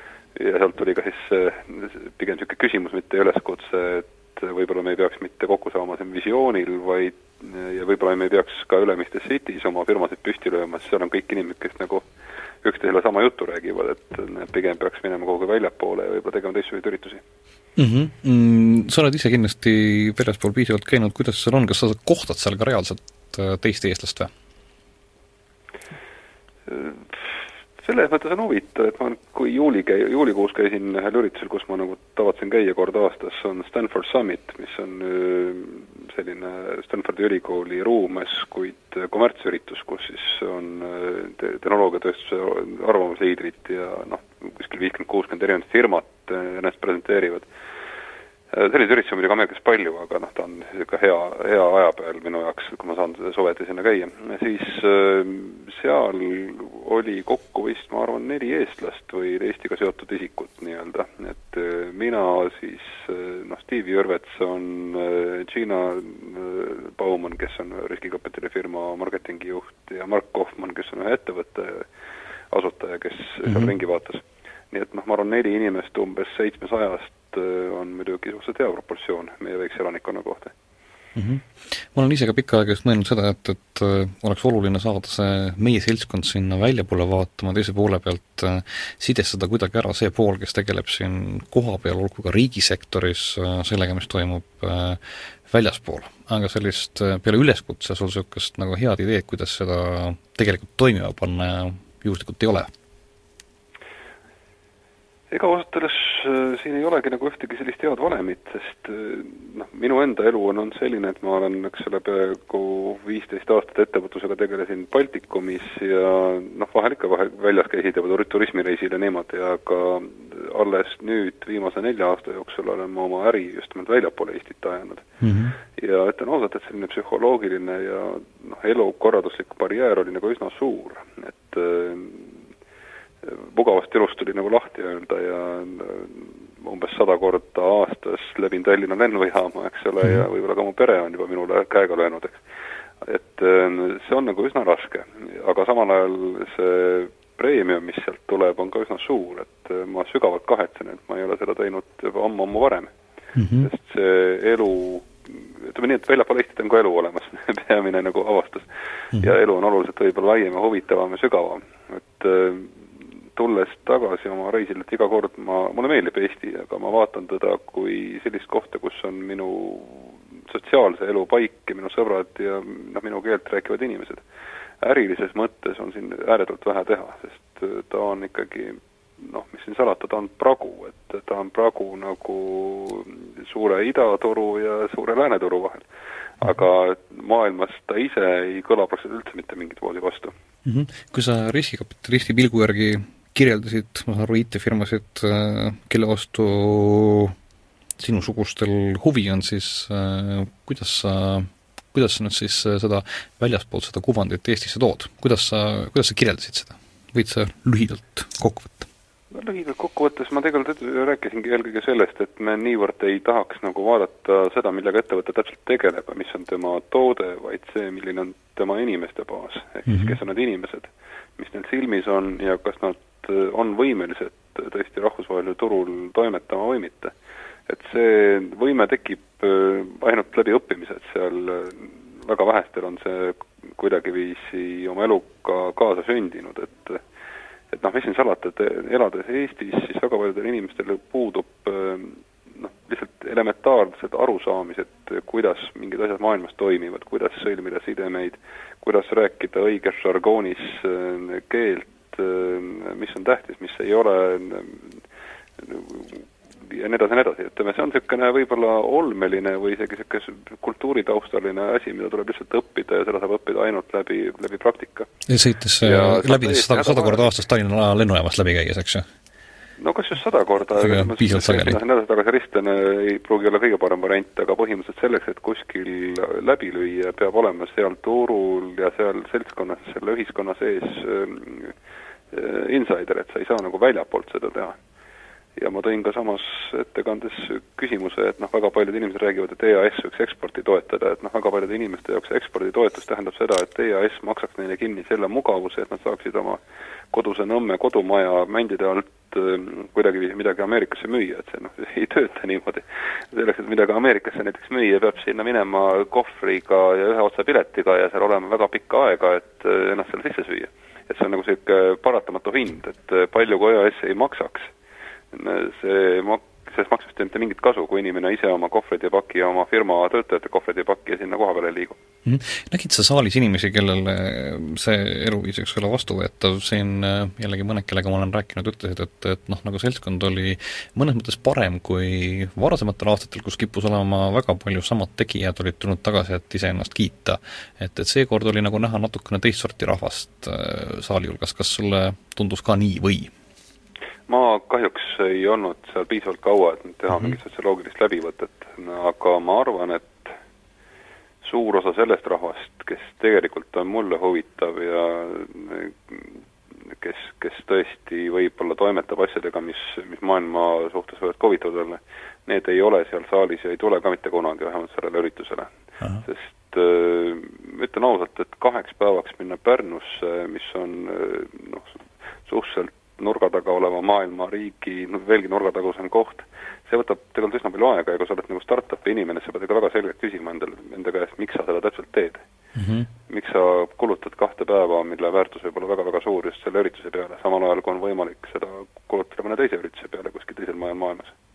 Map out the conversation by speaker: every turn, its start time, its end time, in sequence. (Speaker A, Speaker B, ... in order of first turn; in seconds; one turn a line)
Speaker A: 0.3-12.1
Speaker A: 12.6-17.2
Speaker B: 17.8-24.3
Speaker A: 26.7-47.5
Speaker A: 48.5-71.9
Speaker A: 72.5-80.5
Speaker B: 73.5-73.7
Speaker B: 81.2-102.7
Speaker A: 105.3-125.1
Speaker B: 125.2-125.6
Speaker A: 125.7-132.4
Speaker A: 133.2-142.4
Speaker A: 143.0-152.9
Speaker B: 153.4-153.7
Speaker A: 153.6-174.2
Speaker A: 174.8-185.9
Speaker A: 186.4-190.3
Speaker B: 190.7-197.4
Speaker B: 198.0-208.9
Speaker A: 209.3-227.1
Speaker B: 219.9-220.2
Speaker A: 227.7-237.0
Speaker A: 237.7-255.0
Speaker A: 255.6-265.1
Speaker B: 265.3-269.1
Speaker A: 265.8-267.3
Speaker A: 269.8-281.8
Speaker B: 270.8-271.8
Speaker A: 282.3-284.8
Speaker A: 285.6-314.7
Speaker A: 315.3-322.0
Speaker B: 322.2-343.3
Speaker A: 344.3-350.3
Speaker A: 351.4-382.4
Speaker B: 382.8-383.1
Speaker A: 383.3-391.4